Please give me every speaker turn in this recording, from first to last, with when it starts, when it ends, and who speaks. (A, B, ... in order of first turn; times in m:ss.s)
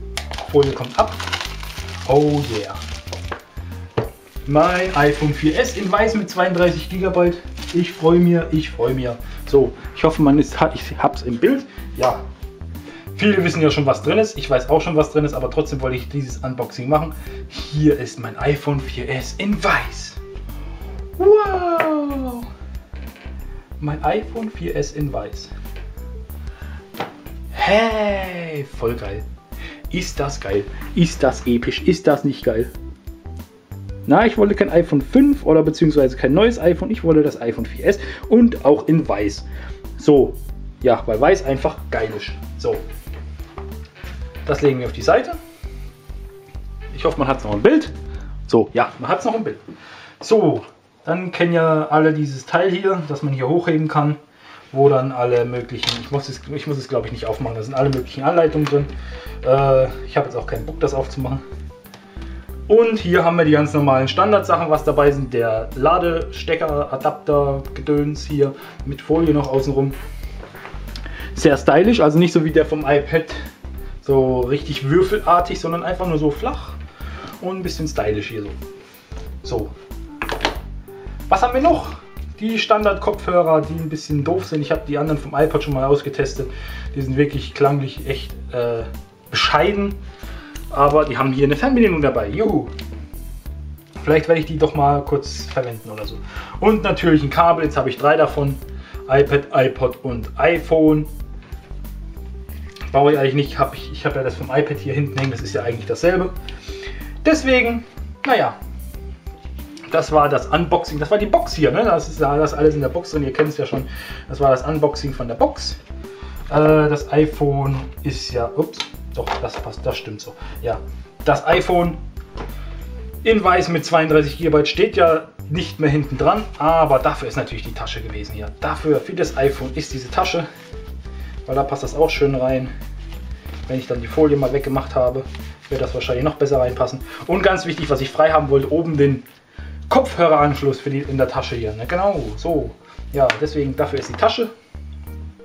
0:00.4-0:01.3 A
0:02.0-0:02.8 A
0:04.5-0:12.2 A
0:13.1-0:20.2 A
0:21.2-0:22.5 A
0:23.8-0:25.5 A
0:27.5-0:29.2 A
0:29.9-0:32.7 A
0:34.1-0:42.8 A
0:44.4-0:45.4 A
0:46.9-0:48.0 A
0:48.5-0:49.6 A
0:50.2-0:54.2 A
0:54.7-0:58.9 A
0:59.4-1:01.4 A
1:02.7-1:10.0 A
1:11.3-1:13.4 A
1:14.0-1:16.8 A
1:17.4-1:18.6 A
1:19.4-1:19.7 A
1:21.3-1:30.0 A
1:30.7-1:32.7 A
1:34.0-1:41.1 A
1:42.9-1:46.3 A
1:47.2-1:48.6 A
1:49.9-1:55.8 A
1:56.5-2:02.0 A
2:03.2-2:10.5 A
2:11.5-2:12.7 A
2:13.7-2:19.3 A
2:19.9-2:24.5 A